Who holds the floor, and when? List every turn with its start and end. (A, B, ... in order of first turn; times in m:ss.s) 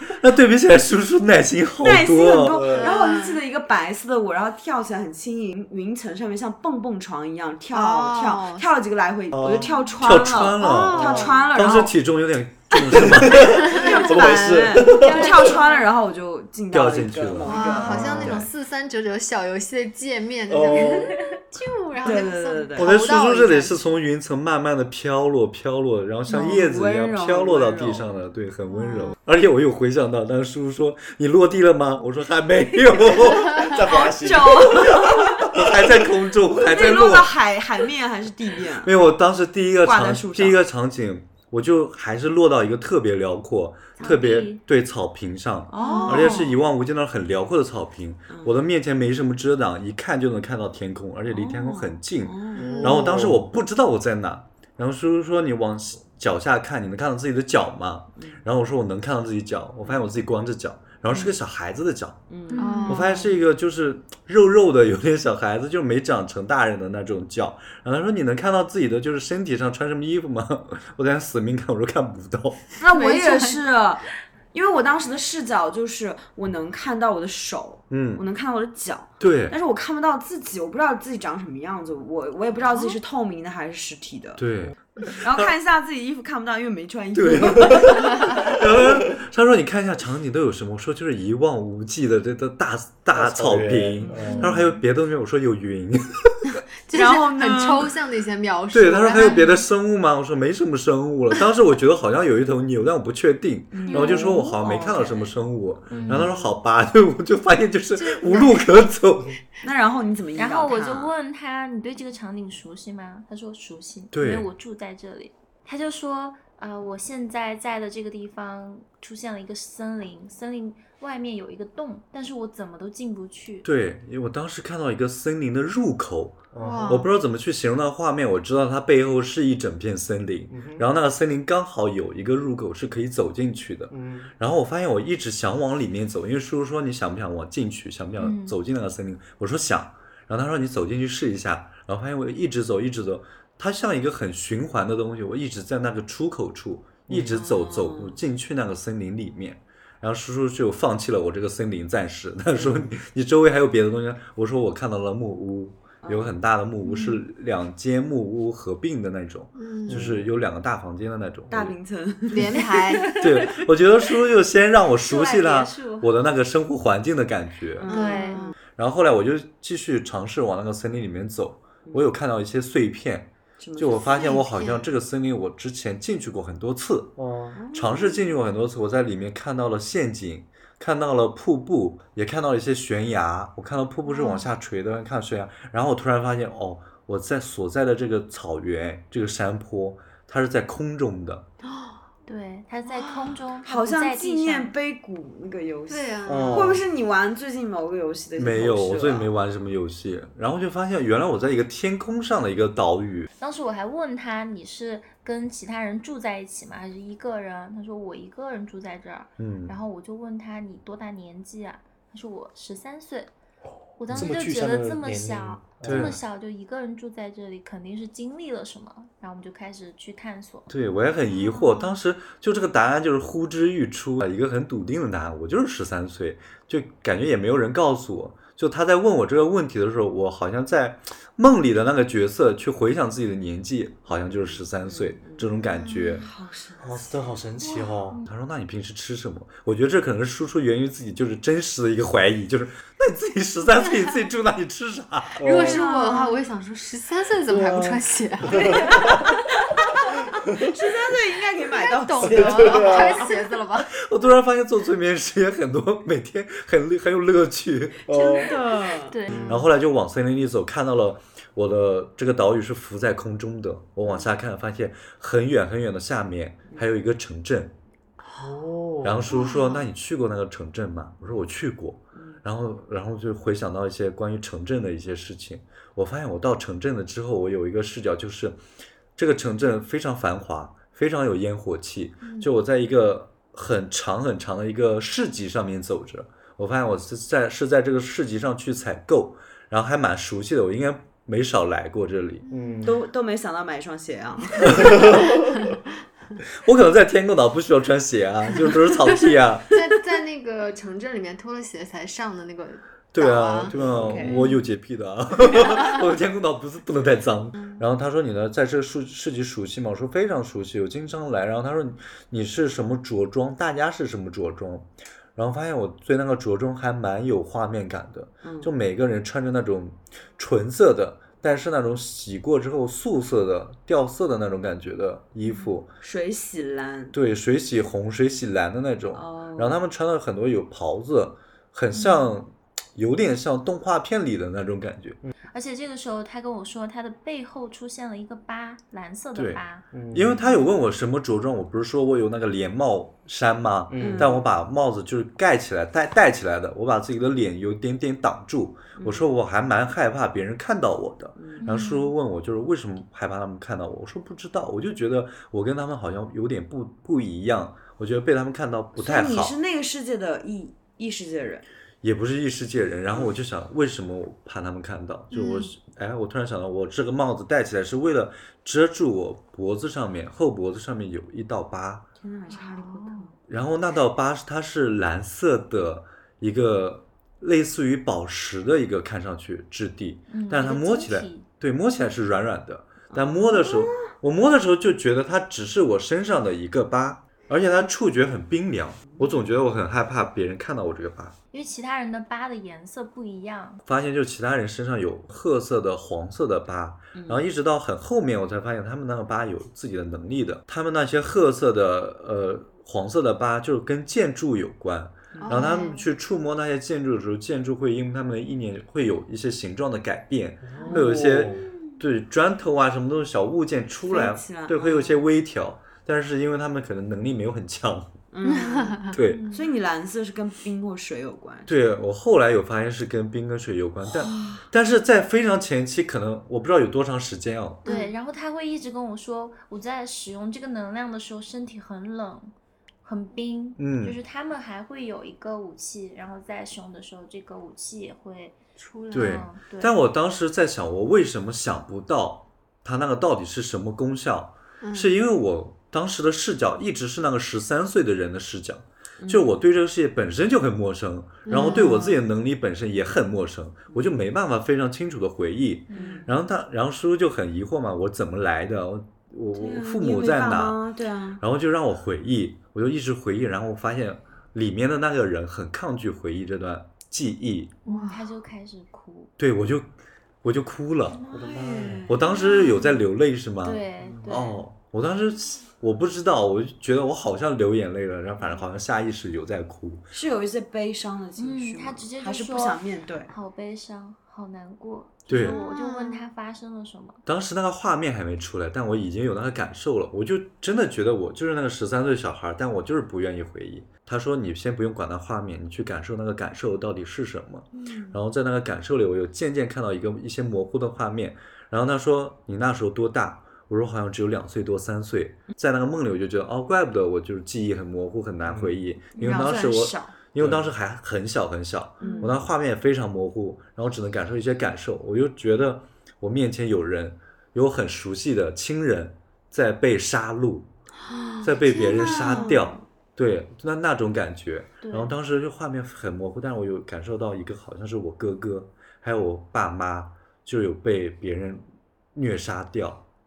0:00.1-0:02.6 A
0:01.8-0:11.9 B
0:02.4-0:03.0 C
0:02.8-0:03.4 D
0:07.7-0:08.6 D
0:09.3-0:09.8 C
0:10.0-0:13.6 A
0:10.6-0:11.5 D
0:12.7-0:18.4 B
0:12.9-0:15.3 C
0:13.6-0:14.1 D
0:14.8-0:15.9 E
0:15.2-0:15.6 D
0:16.7-0:18.5 A
0:17.4-0:23.9 D
0:17.6-0:17.9 E
0:20.5-0:21.2 C
0:22.0-0:22.9 B
0:22.8-0:33.8 A
0:26.3-0:28.2 B
0:28.8-0:29.1 D
0:33.6-0:35.6 C
0:33.8-0:35.5 B
0:35.5-0:37.3 A
0:36.5-0:38.9 B
0:38.8-1:02.3 A
0:39.8-0:40.6 B
0:44.0-0:44.6 E
0:45.7-0:46.6 B
0:45.8-0:46.2 E
0:45.9-0:46.3 D
0:51.3-0:52.8 B
0:52.6-0:53.1 D
0:52.6-0:53.5 C
0:59.8-1:00.1 B
1:02.3-1:03.0 B
1:02.5-1:03.1 E
1:02.6-1:03.3 D
1:02.9-1:12.6 A
1:12.8-1:24.4 B
1:12.9-1:13.6 D
1:17.9-1:18.2 A
1:19.2-1:19.6 A
1:24.4-1:25.5 A
1:25.2-1:28.7 B
1:27.1-1:36.6 A
1:28.0-1:28.4 D
1:33.1-1:34.5 C
1:34.0-1:34.6 B
1:34.3-1:34.6 D
1:34.3-1:34.6 E
1:36.9-1:39.6 D
1:36.9-1:38.0 B
1:38.7-1:49.4 A
1:43.7-1:45.4 B
1:43.9-1:44.4 E
1:43.9-1:44.3 D
1:45.9-1:46.6 B
1:45.9-1:46.3 C
1:48.0-1:48.6 D
1:49.6-1:51.1 B
1:50.4-2:03.6 E
1:54.1-1:54.5 A
2:03.6-2:41.8 A
2:06.5-2:07.0 C
2:06.6-2:07.1 D
2:10.5-2:10.8 C
2:13.9-2:14.3 C
2:18.2-2:18.6 E
2:27.1-2:27.4 C
2:27.3-2:28.2 B
2:36.0-2:36.4 B
2:39.5-2:40.1 D
2:39.9-2:40.3 C
2:41.5-2:43.1 B
2:42.3-2:43.2 D
2:42.9-2:43.6 E
2:43.2-2:47.9 A
2:45.0-2:46.1 E
2:47.8-2:48.5 B
2:47.9-2:48.5 D
2:47.9-2:48.4 E
2:48.8-2:57.2 A
2:53.6-2:54.4 B
2:54.0-2:54.9 D
2:57.2-2:57.6 C
2:57.5-2:58.4 B
2:57.7-3:11.5 A
3:04.1-3:04.4 D
3:12.2-3:14.7 E
3:13.6-3:19.3 B
3:15.9-3:16.8 D
3:16.2-3:16.8 C
3:18.4-3:23.3 A
3:23.4-3:33.3 E
3:29.4-3:29.7 A
3:34.0-3:40.7 E
3:34.1-3:36.2 C
3:35.8-3:36.2 A
3:40.7-3:56.2 A
3:41.5-3:41.8 E
3:54.3-3:57.1 B
3:55.7-3:56.2 D
3:56.8-3:58.2 C
3:57.6-3:58.3 E
3:58.2-4:05.4 A
4:05.4-4:05.8 C
4:05.4-4:09.1 D
4:05.5-4:06.4 B
4:07.5-4:09.3 C
4:10.4-4:10.7 C
4:10.5-4:13.3 B
4:11.7-4:13.9 D
4:12.2-4:13.3 C
4:13.8-4:18.0 A
4:18.1-4:18.6 C
4:18.1-4:19.6 E
4:18.3-4:19.1 B
4:19.3-4:19.7 D
4:19.4-4:27.7 A
4:24.0-4:24.3 B
4:28.3-4:29.2 C
4:29.0-4:38.6 A
4:32.1-4:32.4 B
4:39.2-4:52.4 A
4:42.2-4:42.5 D
4:52.5-4:52.9 D
4:52.5-4:52.9 C
4:52.8-4:55.2 B
4:54.7-4:55.2 C
4:56.6-4:59.7 A
4:59.2-5:04.4 D
5:03.1-5:25.9 A
5:03.7-5:04.4 B
5:03.9-5:04.2 C
5:04.2-5:04.6 E
5:07.6-5:07.8 B
5:18.4-5:18.7 B
5:25.5-5:27.1 B
5:27.1-5:35.2 A
5:29.1-5:29.8 B
5:35.5-5:39.8 E
5:39.3-5:59.6 A
5:39.9-5:40.4 C
5:43.9-5:44.4 C
5:44.0-5:44.5 B
5:49.0-5:49.3 B
5:51.4-5:51.6 B
5:51.6-5:52.1 E
5:59.0-6:01.6 B
6:02.0-6:12.1 A
6:05.3-6:05.7 D
6:12.2-6:13.3 B
6:12.5-6:13.2 D
6:13.5-6:31.4 A
6:20.3-6:21.5 E
6:23.1-6:24.0 B
6:31.5-6:33.8 E
6:33.8-6:58.2 A
6:37.1-6:37.4 B
6:45.3-6:45.9 B
6:45.4-6:46.0 D
6:50.7-6:51.7 C
6:50.8-6:51.0 B
6:51.6-6:52.0 B
6:54.1-6:55.2 B
6:58.3-7:01.7 B
6:58.5-6:59.2 D
6:59.1-6:59.4 A
6:59.2-6:59.7 E
7:01.7-7:07.8 A
7:04.2-7:04.6 B
7:07.8-7:12.5 E
7:07.8-7:08.1 D
7:13.0-7:18.6 E
7:13.8-7:14.2 A
7:18.8-7:19.4 D
7:19.1-7:19.9 E
7:19.1-7:40.8 A
7:24.8-7:25.2 D
7:29.2-7:29.5 B
7:31.4-7:32.2 D
7:31.5-7:32.1 B
7:35.9-7:36.3 B
7:35.9-7:36.2 E
7:39.5-7:41.4 B
7:41.4-7:47.7 A
7:47.8-7:48.2 D
7:47.9-7:49.3 E
7:49.4-7:51.2 A
7:51.3-7:52.8 B
7:51.3-7:52.1 C
7:52.1-8:00.1 A
7:52.4-7:53.0 E
7:53.6-7:54.6 E
7:54.0-7:54.3 C
8:00.1-8:03.3 B
8:01.4-8:07.2 E
8:05.3-8:05.6 A
8:05.3-8:06.3 D
8:07.2-8:40.7 A
8:17.8-8:18.2 E
8:28.4-8:28.7 C
8:29.2-8:30.2 B
8:30.4-8:30.7 C
8:32.0-8:32.3 B
8:32.0-8:32.3 E
8:41.1-8:42.7 B
8:41.4-8:53.0 A
8:41.7-8:42.5 D
8:44.8-8:45.1 E